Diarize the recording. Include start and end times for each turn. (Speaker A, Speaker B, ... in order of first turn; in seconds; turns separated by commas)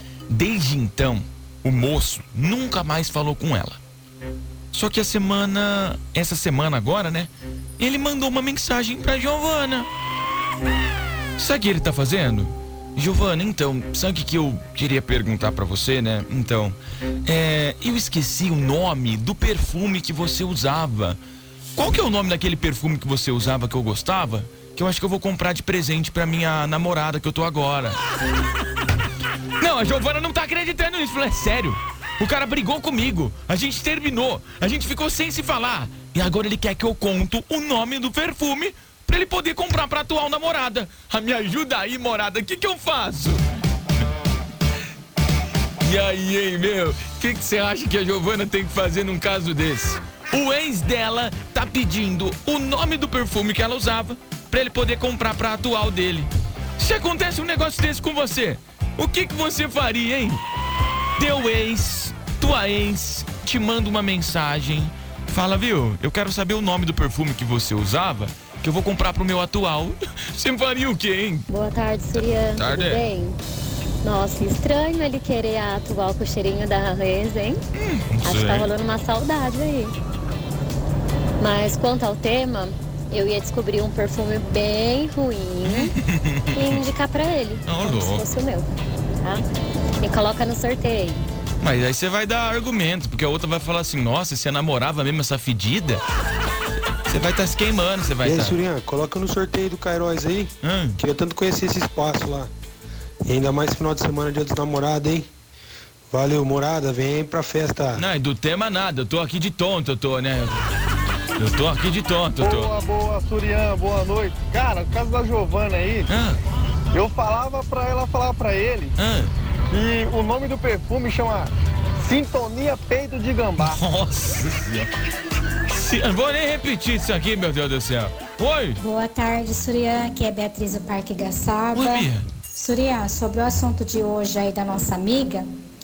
Speaker A: 0.3-3.8, Speaker A: 4.7-9.9, Speaker A: 11.4-21.2, Speaker A: 21.8-28.0, Speaker A: 29.6-43.4, Speaker A: 45.8-60.4, Speaker A: 61.2-71.5, Speaker B: 71.5-73.4, Speaker A: 72.1-73.1, Speaker B: 74.0-77.6, Speaker A: 77.8-78.8, Speaker B: 78.2-79.9, Speaker B: 81.4-85.9, Speaker A: 85.6-86.8, Speaker B: 86.5-88.7, Speaker A: 87.7-88.3, Speaker B: 90.0-91.2, Speaker A: 91.6-96.0, Speaker A: 97.1-98.6, Speaker C: 98.2-102.5, Speaker A: 100.6-101.0, Speaker C: 103.2-105.3, Speaker C: 106.1-108.1, Speaker A: 108.0-110.6, Speaker A: 111.4-112.7, Speaker D: 112.4-116.1, Speaker A: 116.1-116.4, Speaker D: 116.9-119.0, Speaker A: 119.0-119.3, Speaker D: 119.7-123.8, Speaker A: 123.6-124.9, Speaker A: 125.7-128.8, Speaker E: 128.8-135.5, Speaker A: 131.7-132.2